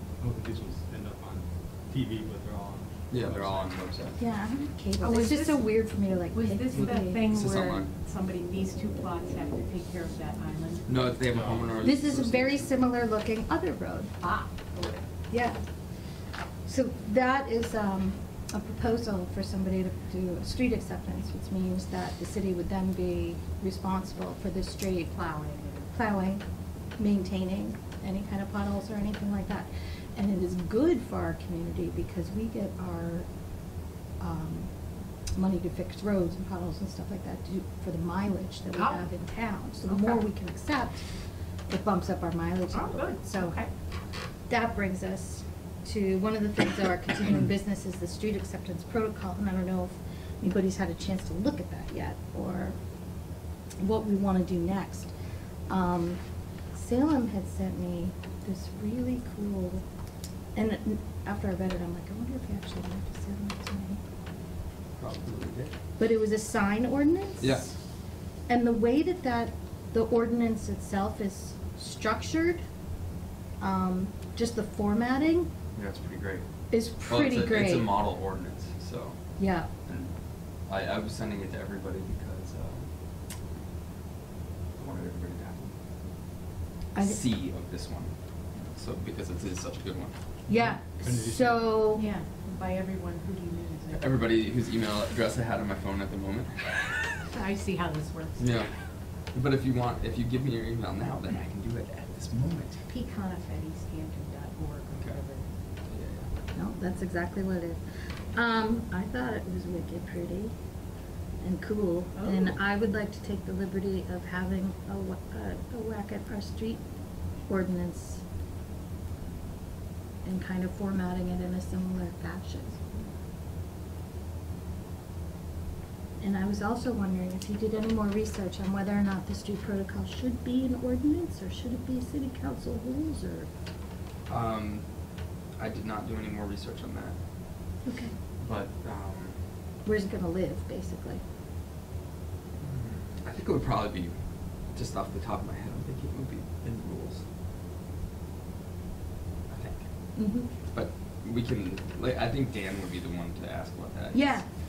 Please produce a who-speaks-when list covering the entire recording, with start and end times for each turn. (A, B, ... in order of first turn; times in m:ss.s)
0:00.2-0:03.7 A
0:03.1-0:04.2 B
0:04.2-0:07.2 C
0:05.0-0:11.2 D
0:06.8-0:07.9 B
0:10.9-0:12.7 B
0:11.3-0:11.8 A
0:11.8-0:14.1 C
0:14.2-0:15.0 D
0:15.3-0:15.6 C
0:16.7-0:25.1 C
0:25.1-0:25.9 D
0:25.9-0:26.4 C
0:27.0-0:33.3 C
0:34.2-0:34.7 C
0:35.4-0:41.0 C
0:38.7-0:39.1 D
0:39.8-0:40.2 D
0:41.7-0:43.6 C
0:42.7-0:43.7 D
0:44.5-0:52.8 C
0:53.8-0:55.1 C
0:55.7-0:56.2 C
0:56.7-0:59.8 C
1:00.6-1:04.0 C
1:05.0-1:05.7 B
1:06.0-1:07.6 C
1:07.4-1:07.7 B
1:08.5-1:12.6 C
1:13.6-1:15.5 C
1:15.8-1:16.5 B
1:16.7-1:17.9 C
1:17.1-1:19.2 B
1:19.4-1:19.7 C
1:19.9-1:20.1 B
1:20.7-1:22.9 B
1:24.8-1:25.7 B
1:27.0-1:27.2 C
1:27.0-1:30.2 B
1:30.5-1:32.1 C
1:30.5-1:31.9 A
1:31.9-1:34.1 D
1:33.9-1:36.8 B
1:37.3-1:38.6 D
1:38.4-1:38.7 B
1:39.3-1:42.8 B
1:42.9-1:45.4 D
1:45.9-1:46.3 B
1:46.6-1:47.8 C
1:48.3-1:50.5 C
1:51.4-1:56.8 C
1:52.2-1:52.5 D
1:57.5-1:58.2 C
2:00.2-2:03.1 C
2:06.2-2:13.5 C
2:14.3-2:14.9 B
2:15.6-2:17.2 B
2:17.8-2:18.1 C
2:18.4-2:19.4 B
2:19.8-2:21.2 C
2:22.6-2:24.1 B
2:24.7-2:27.2 B
2:29.5-2:29.8 B
2:30.2-2:30.5 C
2:30.7-2:34.4 B
2:34.1-2:34.5 C